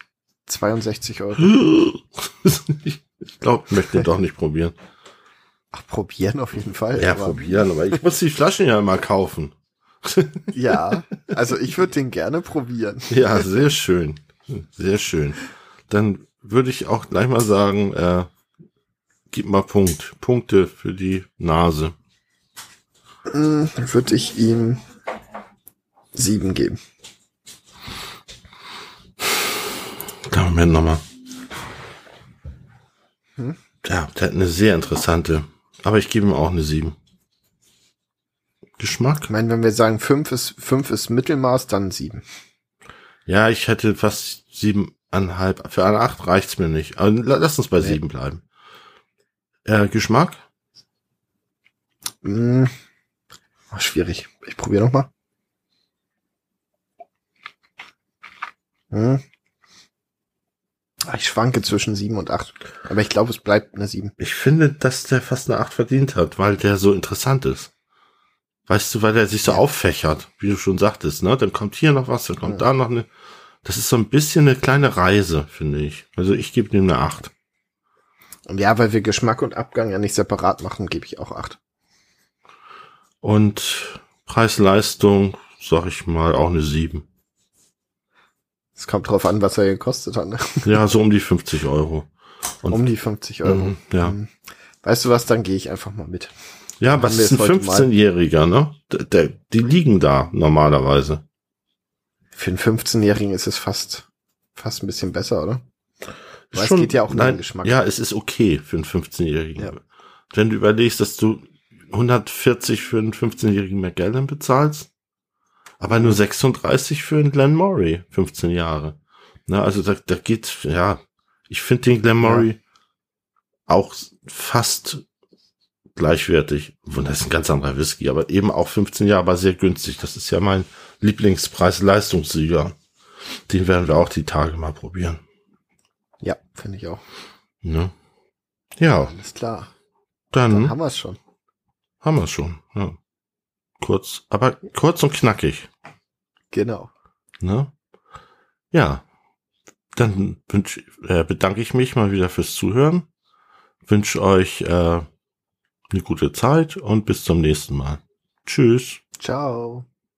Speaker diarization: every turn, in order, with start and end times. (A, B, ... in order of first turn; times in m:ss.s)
0:00.5-0:01.6 A
0:01.4-0:04.8 B
0:05.7-0:07.6 A
0:07.0-0:10.9 B
0:10.5-0:13.5 A
0:13.1-0:18.3 B
0:19.3-0:22.0 B
0:23.3-0:24.8 A
0:26.1-0:26.8 A
0:30.2-0:31.0 B
0:33.8-0:37.0 B
0:38.8-0:39.3 B
0:39.3-0:42.2 A
0:43.3-0:48.4 B
0:49.7-0:50.4 B
0:52.2-0:52.8 A
0:53.7-0:55.1 A
0:58.9-0:59.2 A
1:01.1-1:04.2 A
1:04.2-1:07.7 B
1:08.7-1:13.1 B
1:13.6-1:17.3 B
1:18.5-1:21.6 A
1:23.2-1:27.1 B
1:28.8-1:30.8 A
1:30.6-1:32.1 B
1:32.7-1:36.3 A
1:33.4-1:34.2 B
1:36.8-1:41.2 B
1:37.0-1:37.9 A
1:42.4-1:45.6 A
1:46.5-1:54.9 B
1:46.5-1:47.8 A
1:55.8-2:02.6 B
1:55.9-1:56.2 A
2:02.2-2:02.5 A
2:03.7-2:05.0 B
2:06.0-2:12.8 B
2:13.5-2:15.2 B
2:16.2-2:17.0 A
2:17.6-2:17.9 B
2:18.8-2:19.1 B
2:19.0-2:19.7 A
2:20.3-2:20.7 B
2:20.5-2:21.2 A
2:22.0-2:23.0 B
2:23.8-2:25.7 B
2:26.5-2:26.9 A
2:27.4-2:27.7 B
2:28.7-2:29.0 B
2:30.0-2:33.1 B
2:33.9-2:35.1 B
2:35.9-2:39.0 B
2:39.2-2:39.9 A